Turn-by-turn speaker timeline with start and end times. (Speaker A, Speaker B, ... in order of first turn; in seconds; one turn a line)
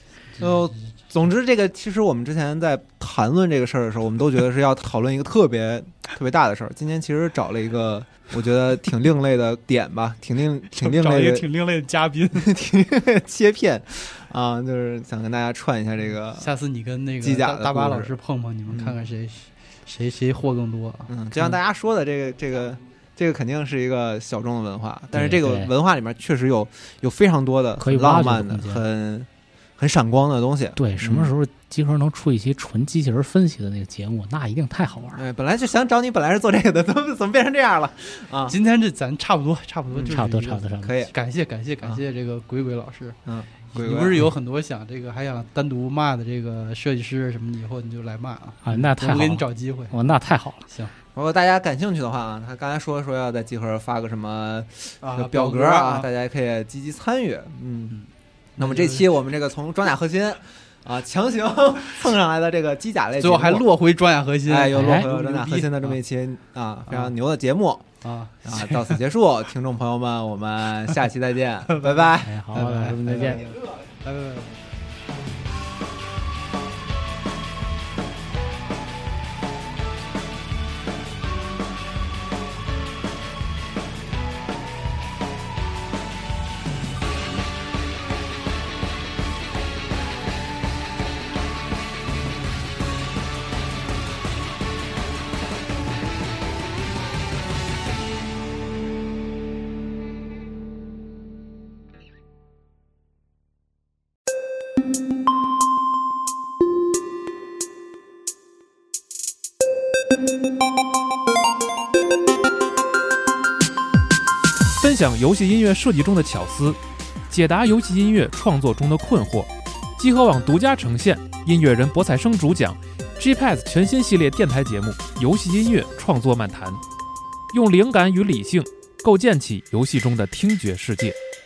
Speaker A: 0.4-11.5
Speaker B: 10.7-12.5
Speaker A: 12.3-16.5
Speaker B: 16.3-21.5
Speaker A: 17.2-18.1
Speaker A: 18.7-19.1
Speaker A: 21.1-31.3
Speaker C: 25.1-25.7
Speaker C: 27.8-28.8
Speaker C: 30.8-35.2
Speaker A: 35.1-38.6
Speaker B: 38.5-43.2
Speaker A: 39.9-40.2
Speaker C: 40.1-40.9
Speaker A: 40.8-41.1
Speaker A: 43.3-44.3
Speaker B: 43.7-50.2
Speaker C: 48.6-50.6
Speaker A: 51.1-58.0
Speaker B: 55.0-56.1
Speaker B: 57.9-59.1
Speaker A: 58.6-63.7
Speaker B: 63.2-66.0
Speaker A: 64.4-67.9
Speaker C: 64.7-65.1
Speaker B: 68.0-69.0
Speaker A: 68.4-73.5
Speaker B: 71.7-74.5
Speaker C: 72.2-73.4
Speaker D: 114.7-126.8
Speaker D: 127.5-131.2